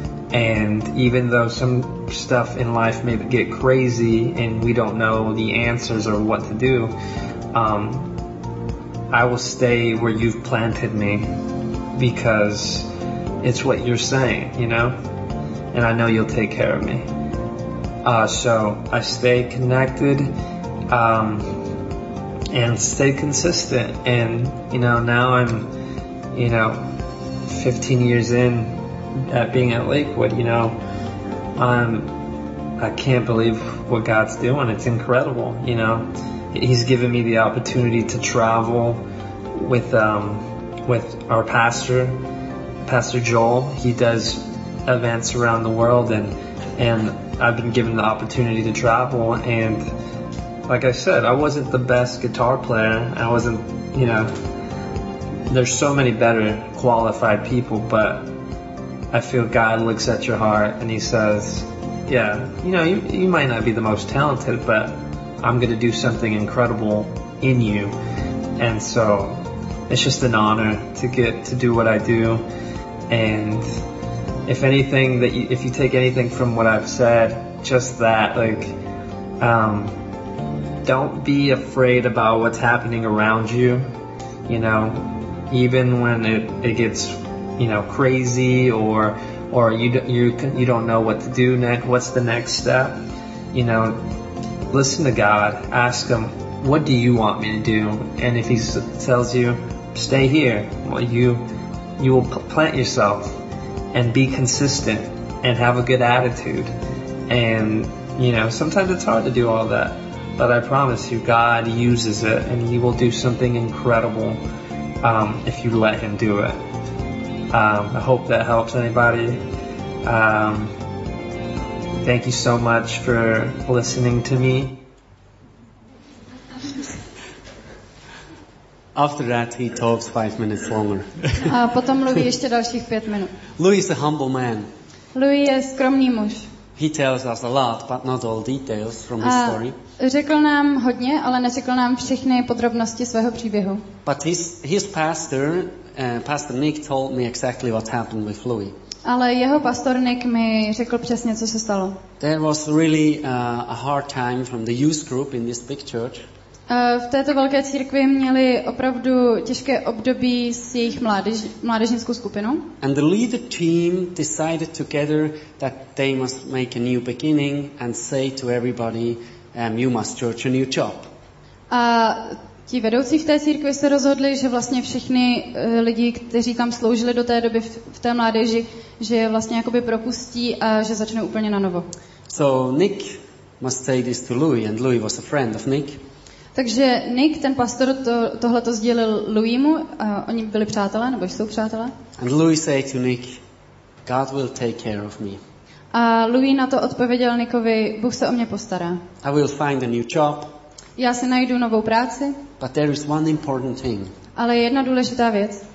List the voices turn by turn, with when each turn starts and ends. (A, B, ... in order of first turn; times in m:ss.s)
0:00.3-0:06.9 A
0:07.5-0:08.2 A
0:09.1-0:11.3 A
0:12.0-0:12.9 A
0:13.4-0:15.0 A
0:15.7-0:17.1 A
0:18.0-0:20.3 A
0:20.9-0:21.6 A
0:22.5-0:25.7 A
0:26.3-0:30.8 A
0:31.6-0:32.2 A
0:32.8-0:39.0 A
0:39.6-0:42.2 A
0:42.8-0:49.9 A
0:50.7-0:54.4 A
0:55.5-0:58.3 A
0:59.1-1:07.9 A
1:08.6-1:12.4 A
1:13.1-1:13.7 A
1:14.5-1:18.8 A
1:19.4-1:20.0 A
1:20.8-1:23.9 A
1:24.5-1:33.0 A
1:33.5-1:34.0 A
1:34.7-1:41.5 A
1:42.0-1:43.3 A
1:43.9-1:46.7 A
1:47.3-1:54.4 A
1:55.0-1:56.6 A
1:57.5-1:59.4 A
2:00.0-2:00.7 A
2:02.0-2:04.7 A
2:09.0-2:11.5 B
2:11.4-2:13.3 C
2:13.6-2:14.7 B
2:15.1-2:16.5 C
2:16.8-2:19.8 B
2:19.2-2:23.8 C
2:24.0-2:28.8 B
2:29.0-2:32.0 C
2:32.2-2:36.3 B
2:36.7-2:42.6 C
2:42.8-2:51.1 B
2:51.7-3:01.9 C
3:02.3-3:06.0 B
3:06.6-3:11.9 C
3:12.2-3:13.4 B
3:14.0-3:15.4 B
3:15.9-3:19.0 C
3:19.2-3:20.5 B
3:21.0-3:22.4 C
3:22.6-3:24.1 B
3:24.4-3:25.6 C